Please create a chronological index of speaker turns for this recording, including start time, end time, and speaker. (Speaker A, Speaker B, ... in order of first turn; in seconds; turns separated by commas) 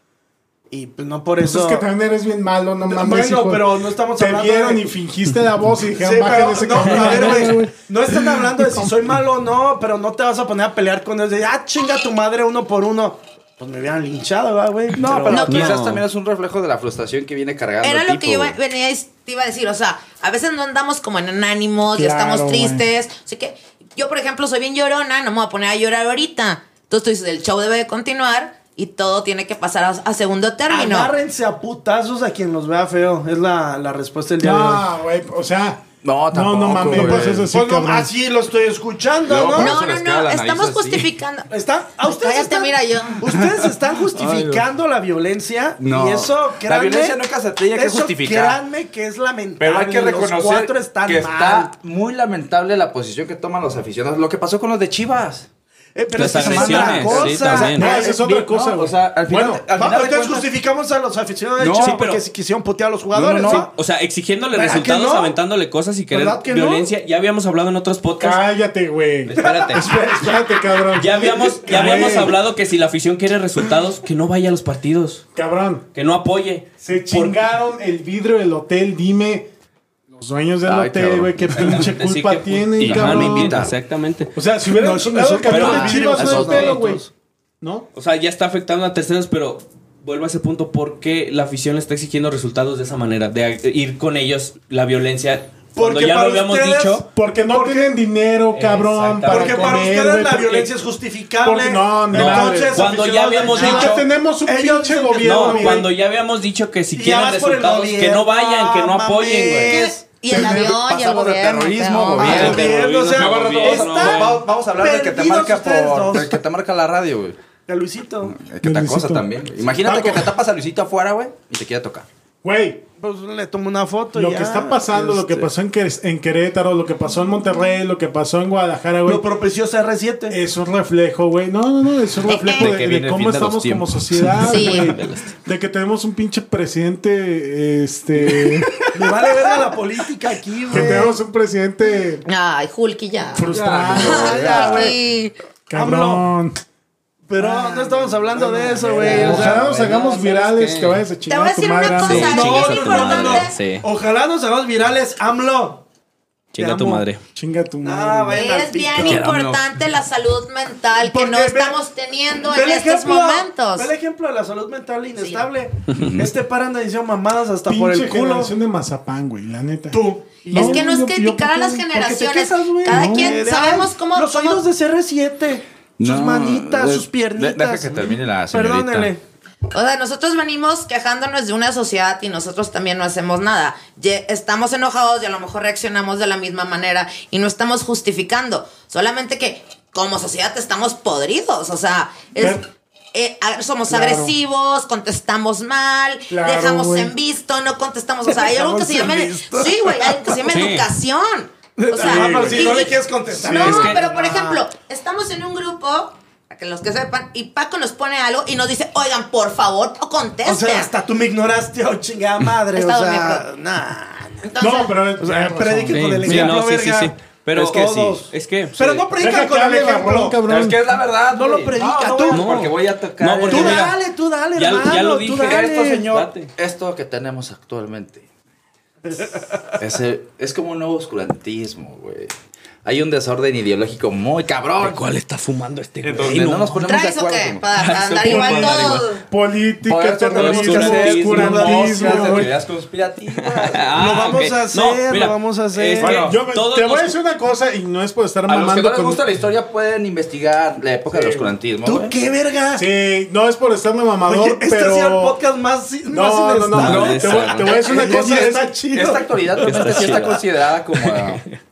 Speaker A: 0.7-1.9, Speaker B: 1.4-8.9, Speaker A: 2.9-4.9, Speaker A: 5.9-15.4, Speaker C: 6.8-7.5, Speaker D: 15.0-18.6, Speaker C: 15.2-16.0, Speaker E: 15.3-15.7, Speaker E: 17.8-31.1, Speaker B: 21.9-22.9, Speaker A: 30.7-34.8, Speaker B: 34.4-38.1, Speaker D: 36.0-37.5, Speaker A: 36.9-39.8, Speaker D: 39.2-41.1, Speaker E: 39.5-41.5, Speaker A: 41.5-51.7, Speaker E: 42.0-43.3, Speaker D: 43.4-44.6, Speaker D: 45.8-48.6, Speaker D: 49.6-55.5, Speaker A: 55.9-58.1, Speaker C: 56.1-57.9, Speaker D: 56.2-60.5, Speaker B: 57.5-59.6, Speaker A: 59.7-63.7, Speaker D: 61.6-62.0, Speaker C: 61.8-62.2, Speaker D: 63.1-63.7, Speaker C: 63.5-68.4, Speaker A: 64.5-65.4, Speaker A: 66.1-66.9, Speaker B: 68.2-72.4, Speaker C: 69.2-69.9, Speaker A: 69.4-69.9, Speaker C: 70.9-75.2, Speaker A: 71.7-72.1, Speaker B: 75.3-75.8, Speaker C: 75.9-77.4, Speaker B: 76.8-79.5, Speaker B: 80.1-83.7, Speaker D: 80.7-81.9, Speaker C: 81.6-84.3, Speaker D: 82.8-83.8, Speaker B: 84.3-87.0, Speaker A: 84.7-87.1, Speaker C: 85.5-86.4, Speaker D: 85.5-86.8, Speaker B: 87.6-87.9, Speaker C: 87.9-97.0, Speaker A: 95.8-97.9, Speaker B: 97.1-100.7, Speaker C: 98.5-99.9, Speaker A: 99.3-105.9, Speaker B: 101.4-105.9, Speaker C: 102.1-104.0, Speaker C: 105.2-109.8, Speaker A: 106.9-110.1, Speaker E: 109.6-112.4, Speaker B: 110.3-110.8, Speaker D: 110.3-117.4, Speaker C: 112.2-114.4, Speaker A: 112.2-116.4, Speaker B: 112.3-112.7, Speaker A: 117.7-118.4, Speaker D: 118.2-122.1, Speaker B: 118.6-119.3, Speaker B: 119.9-120.2, Speaker B: 122.4-122.8, Speaker A: 123.0-125.5, Speaker B: 124.1-129.2, Speaker A: 129.1-130.4, Speaker B: 130.3-138.8, Speaker E: 132.3-132.7, Speaker D: 132.6-134.4, Speaker C: 134.4-135.3, Speaker E: 134.4-134.9, Speaker A: 138.9-141.2, Speaker B: 140.7-142.2, Speaker E: 142.2-145.3, Speaker B: 143.3-145.0, Speaker D: 143.5-144.9, Speaker A: 144.1-144.9, Speaker B: 145.7-146.6, Speaker A: 145.7-146.2, Speaker A: 147.3-149.6, Speaker B: 147.4-152.4, Speaker C: 149.0-151.0, Speaker E: 151.3-153.6, Speaker C: 152.0-153.8, Speaker A: 152.2-155.8, Speaker C: 156.5-157.2, Speaker A: 156.6-157.0, Speaker B: 157.4-158.4, Speaker A: 157.8-159.2, Speaker E: 158.3-163.9, Speaker D: 159.0-159.6, Speaker A: 161.0-161.8, Speaker A: 162.4-168.5, Speaker E: 165.2-165.4, Speaker D: 165.9-166.3, Speaker B: 167.7-171.9, Speaker A: 169.9-170.9, Speaker E: 170.5-174.6, Speaker A: 171.9-179.2, Speaker B: 172.9-173.4, Speaker D: 176.0-179.1, Speaker E: 179.7-210.9, Speaker B: 192.4-192.6, Speaker B: 193.9-194.4, Speaker B: 196.3-197.1, Speaker A: 198.3-200.5, Speaker C: 200.5-200.9, Speaker A: 201.8-204.6, Speaker B: 202.0-203.9, Speaker C: 203.6-204.0, Speaker A: 210.4-214.4, Speaker E: 212.7-213.5, Speaker E: 214.4-215.0, Speaker B: 214.6-216.6, Speaker A: 215.2-220.4, Speaker C: 215.9-219.1, Speaker B: 219.2-220.8, Speaker D: 220.4-223.9, Speaker A: 221.3-222.6, Speaker C: 222.3-224.0, Speaker A: 223.5-226.1, Speaker C: 224.6-226.5, Speaker D: 225.4-228.2, Speaker A: 229.1-229.6, Speaker D: 229.8-232.3, Speaker D: 232.8-235.1, Speaker C: 234.8-236.9, Speaker D: 236.0-237.7, Speaker E: 236.8-239.2, Speaker C: 237.8-239.1, Speaker B: 238.3-242.5, Speaker D: 238.3-238.9, Speaker D: 239.9-244.3, Speaker C: 240.3-242.4, Speaker A: 241.2-242.5, Speaker C: 243.4-247.2, Speaker A: 244.0-246.2, Speaker B: 246.0-249.2, Speaker D: 246.0-246.3, Speaker D: 248.5-252.1, Speaker B: 251.1-251.5, Speaker A: 251.8-252.9, Speaker B: 252.8-255.4, Speaker A: 254.3-260.4, Speaker B: 256.1-258.8, Speaker C: 256.7-257.7, Speaker D: 256.8-258.3, Speaker D: 258.9-261.4, Speaker C: 259.6-261.6